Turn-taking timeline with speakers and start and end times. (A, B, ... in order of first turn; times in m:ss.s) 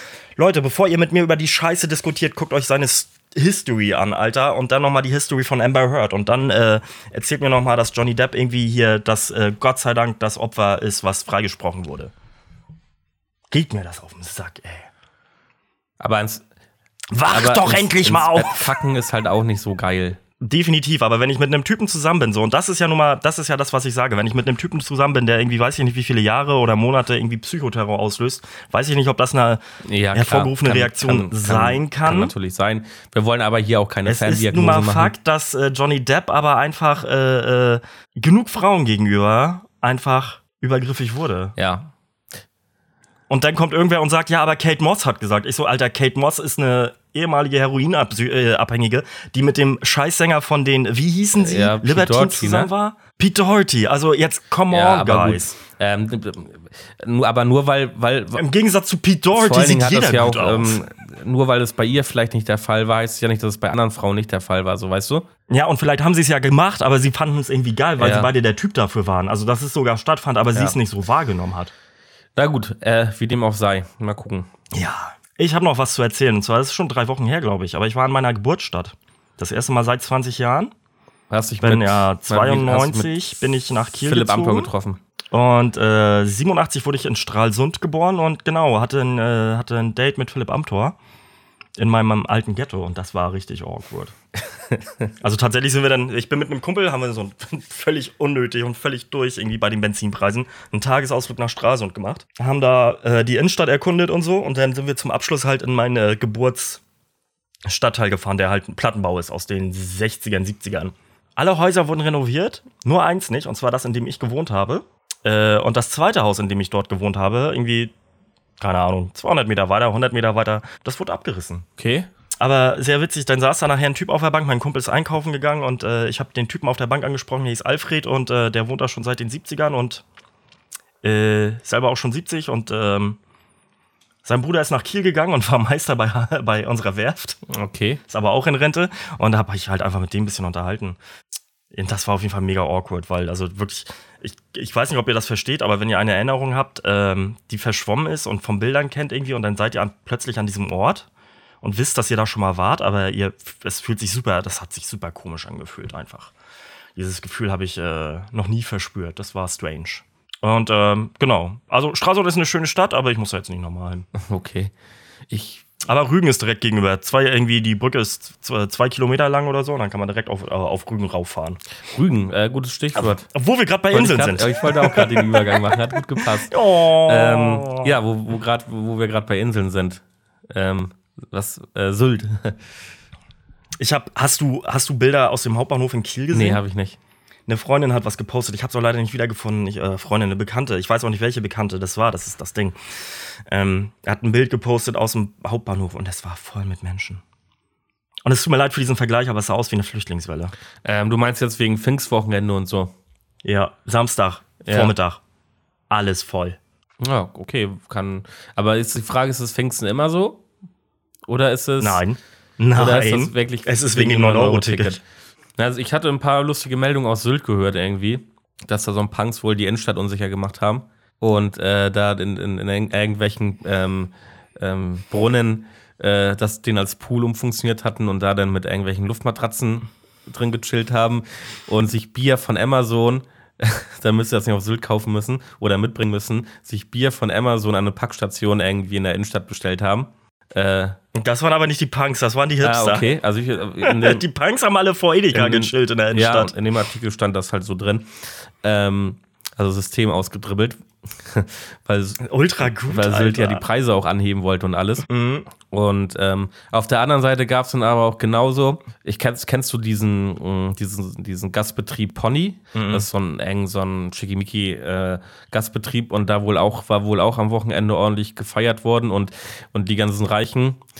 0:00.4-0:12.1 A
0:13.5-0:14.9 A
0:16.0-0:16.4 B
0:17.1-0:18.8 A
0:17.3-0:20.2 B
0:20.4-0:29.6 A
0:29.8-0:35.1 B
0:30.1-0:32.3 A
0:34.0-0:41.5 A
0:41.6-0:41.9 B
0:43.3-0:55.6 A
0:51.4-0:52.7 B
0:54.7-0:58.4 B
0:58.3-1:00.8 A
0:59.3-1:05.3 B
1:05.5-1:11.7 A
1:08.0-1:08.3 B
1:12.4-1:14.5 B
1:14.7-1:20.7 A
1:21.3-1:23.2 B
1:21.6-1:24.7 A
1:23.9-1:25.0 B
1:25.3-1:31.0 A
1:31.8-1:34.1 A
1:34.7-1:35.1 B
1:35.2-1:46.8 A
1:47.7-1:57.9 A
1:58.6-2:01.6 A
2:01.8-2:02.1 B
2:02.4-2:10.0 A
2:11.0-2:13.2 A
2:14.2-2:17.4 A
2:17.5-2:18.0 B
2:18.1-2:21.0 A
2:21.7-2:31.1 A
2:31.6-2:36.3 A
2:37.0-2:44.1 A
2:44.1-2:44.7 B
2:45.3-2:45.6 B
2:45.8-2:51.6 A
2:51.9-2:53.3 B
2:53.0-2:58.0 A
2:53.9-3:02.6 B
3:03.8-3:06.6 A
3:06.3-3:07.0 B
3:07.5-3:17.2 A
3:18.2-3:20.5 A
3:20.8-3:22.9 B
3:23.4-3:25.2 A
3:24.6-3:24.9 B
3:25.9-3:26.6 A
3:27.0-3:30.4 B
3:31.2-3:32.0 B
3:31.8-3:35.0 A
3:32.7-3:35.0 B
3:35.6-4:01.0 B
4:01.1-4:03.1 A
4:02.6-4:04.2 B
4:03.8-4:06.5 A
4:05.3-4:15.0 B
4:12.2-4:13.6 A
4:15.1-4:15.5 A
4:15.6-4:30.8 B
4:22.7-4:23.0 A